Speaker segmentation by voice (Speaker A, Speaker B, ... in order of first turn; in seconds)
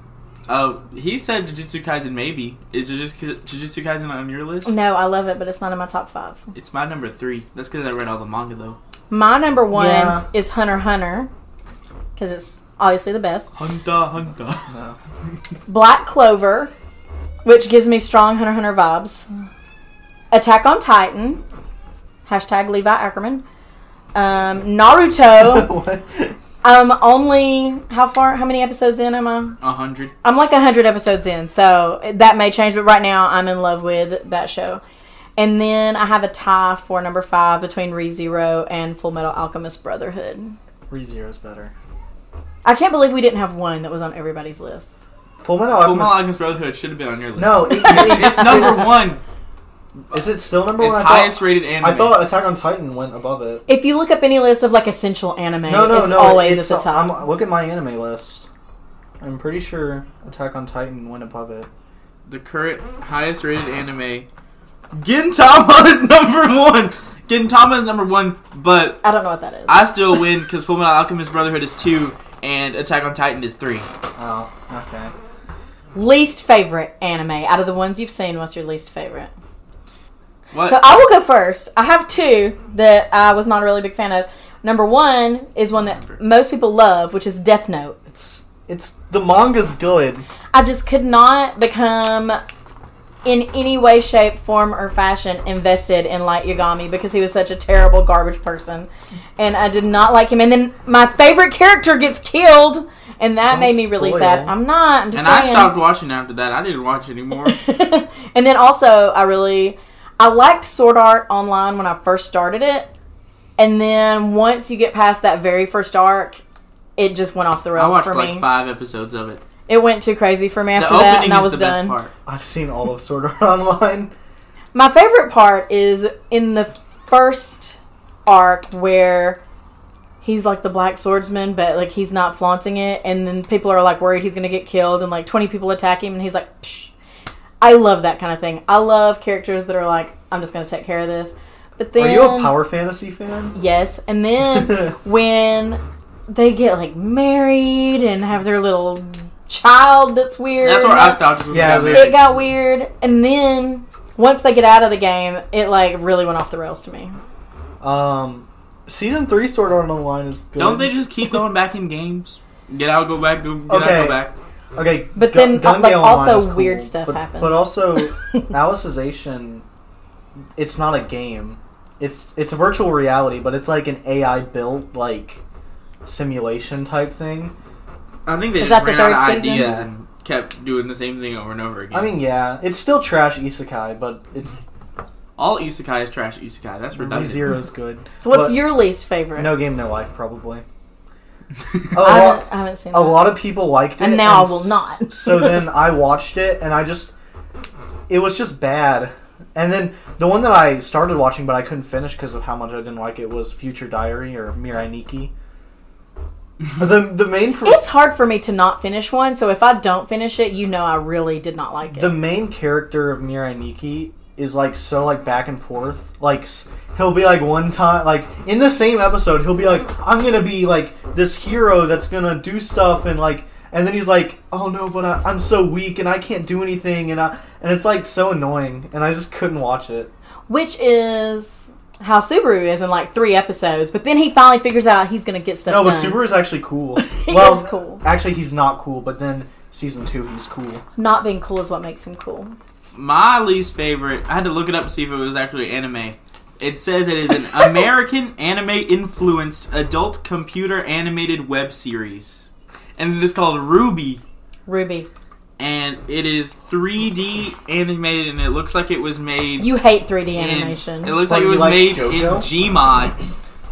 Speaker A: 0.5-4.7, 6.5-8.8, 13.6-14.7, 29.6-30.1, 45.8-49.2, 50.8-52.2, 62.2-64.3, 64.9-69.0, 69.7-73.9, 80.5-80.8, 85.9-86.2, 105.1-107.6, 117.8-119.4, 120.8-122.1, 150.6-152.2, 160.6-164.3, 178.2-182.1, 185.4-187.6, 242.9-252.4, 253.0-254.2, 255.6-259.7, 260.3-263.1
Speaker B: 4.7-6.4, 9.1-11.3, 12.2-13.5, 15.7-16.7, 17.4-19.3, 20.3-21.4, 22.3-23.4, 24.1-25.7, 26.6-29.6, 30.2-34.8, 35.4-40.5, 42.6-44.9, 47.8-48.6, 53.7-57.1, 69.0-69.9, 75.9-79.3, 80.6-88.0, 90.5-92.4, 93.2-105.7, 107.4-112.9, 113.6-116.4, 117.0-118.4, 119.7-122.0, 124.7-129.4, 130.2-136.9, 137.6-142.6, 143.5-157.2, 165.1-168.4, 178.6-179.7, 188.2-189.6, 192.0-193.3, 194.0-195.6, 207.6-212.2, 230.5-236.2, 237.0-238.0, 241.0-242.5, 254.7-255.1, 259.6-261.2
Speaker C: 9.7-10.2, 14.7-15.0, 25.4-26.3, 40.9-41.7, 45.4-46.2, 47.4-48.9, 50.1-53.6, 55.6-58.5, 59.2-61.7, 74.2-75.1, 88.1-90.2, 103.5-104.5, 122.2-124.1, 142.0-143.6, 144.5-144.9, 151.5-152.1, 157.8-160.9, 163.7-169.6, 170.6-175.4, 176.0-177.5, 179.4-179.9, 181.9-184.6, 186.9-188.6, 189.4-190.6, 191.9-197.1, 198.1-205.3, 206.8-207.8, 211.9-230.1, 235.7-240.8, 261.2-262.5